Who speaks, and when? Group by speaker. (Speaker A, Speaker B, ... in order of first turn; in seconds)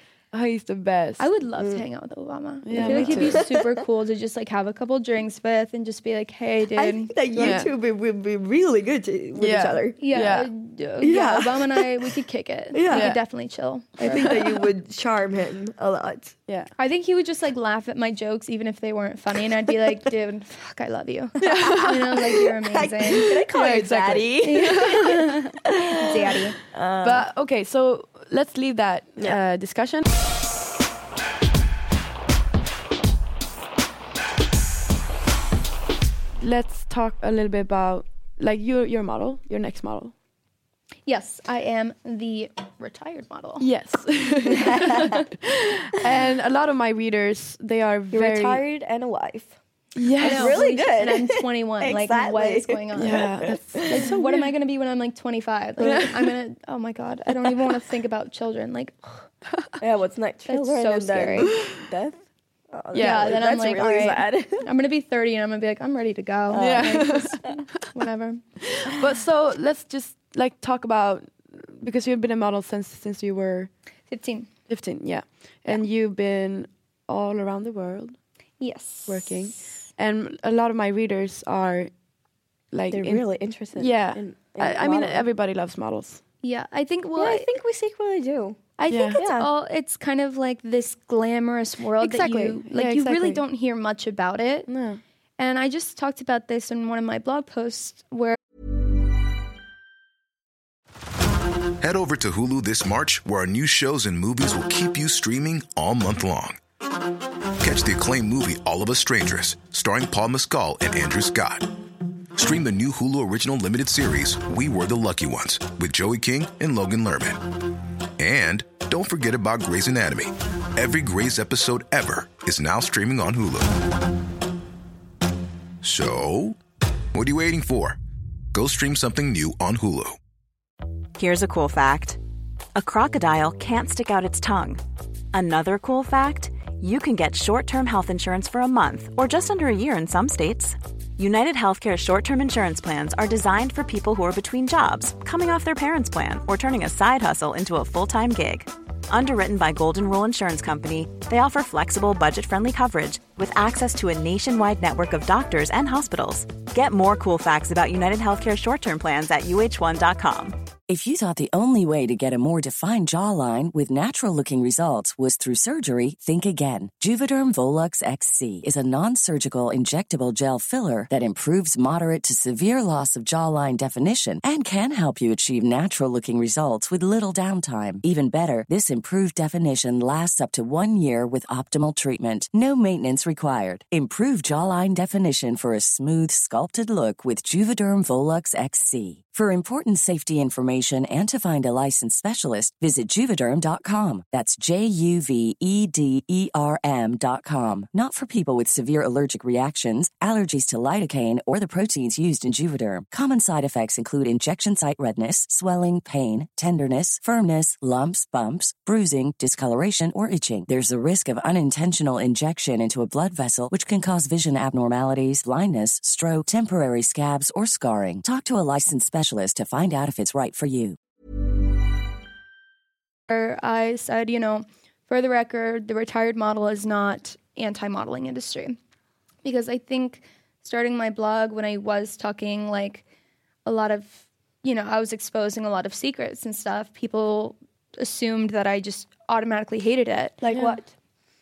Speaker A: 0.3-1.3, 2.6-3.5, 7.3-7.7, 9.3-10.5, 12.9-13.2, 14.0-14.6, 21.4-22.4, 23.0-25.2, 27.0-30.0, 36.4-40.1, 43.6-48.6, 50.0-50.6, 53.0-54.5, 55.8-56.3, 62.9-64.2, 66.5-67.6, 68.6-73.7, 74.7-78.2, 79.1-81.9, 82.7-86.2, 88.9-89.2, 92.0-93.4, 94.7-95.0, 240.5-240.8
Speaker B: 1.2-7.6, 10.0-14.5, 16.8-23.3, 24.4-26.6, 41.1-43.7, 50.2-59.3, 60.5-61.5, 63.0-68.4, 74.1-74.5, 78.6-79.7, 86.4-87.5, 88.8-94.7, 95.4-98.4, 223.3-228.8, 229.4-233.0, 233.7-240.7
Speaker C: 1.6-1.8, 2.8-3.7, 6.8-10.0, 11.0-12.0, 12.7-13.1, 14.0-16.4, 21.4-27.3, 44.6-45.1, 48.1-49.6, 50.2-54.1, 55.8-56.1, 59.8-64.7, 66.5-66.8, 82.9-85.3, 87.2-88.6, 89.2-89.5, 240.4-240.9
Speaker D: 101.8-106.6, 107.6-111.7, 112.4-117.4, 118.2-123.7, 125.8-126.6, 127.1-128.0, 128.5-130.2
Speaker E: 131.2-132.2, 132.8-134.8, 135.3-160.6
Speaker F: 160.9-221.0